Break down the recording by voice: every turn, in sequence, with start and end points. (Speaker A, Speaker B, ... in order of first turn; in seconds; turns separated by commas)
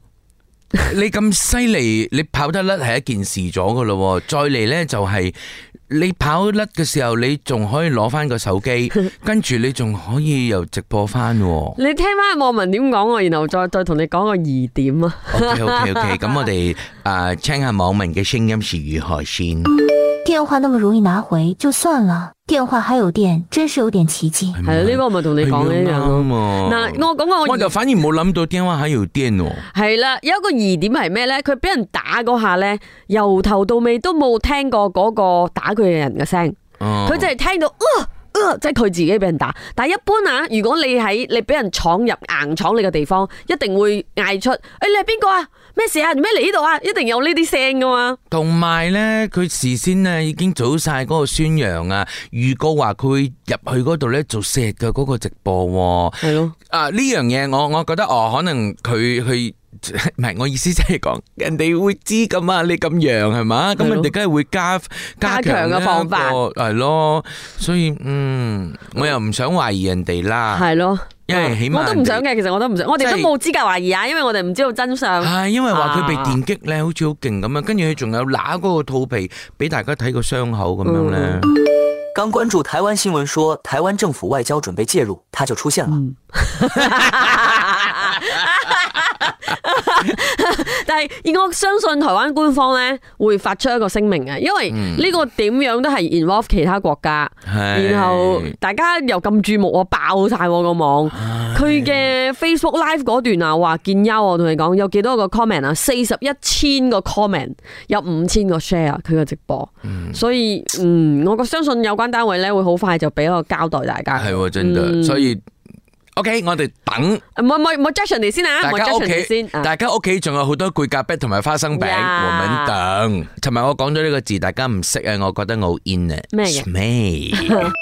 Speaker A: 0.8-5.3, Speaker A: 5.9-11.8, Speaker B: 11.8-15.3, Speaker A: 15.3-19.8, Speaker C: 20.2-24.5, Speaker A: 24.6-29.7, Speaker B: 24.7-27.7, Speaker B: 29.8-48.2, Speaker A: 36.8-37.3, Speaker A: 48.3-70.7, Speaker B: 56.2-56.5, Speaker B: 63.8-64.1, Speaker B: 65.3-66.4, Speaker B: 70.5-76.3, Speaker A: 71.3-72.2, Speaker A: 73.0-73.3, Speaker A: 75.2-81.5, Speaker B: 80.9-81.2, Speaker D: 82.2-86.0, Speaker B: 86.0-87.0, Speaker B: 89.5-115.2, Speaker A: 94.7-95.2, Speaker A: 97.5-98.5, Speaker A: 101.1-102.1, Speaker A: 109.9-110.2, Speaker A: 114.2-115.4, Speaker A: 116.2-117.2, Speaker B: 117.4-119.7, Speaker A: 118.6-127.7, Speaker B: 121.8-122.7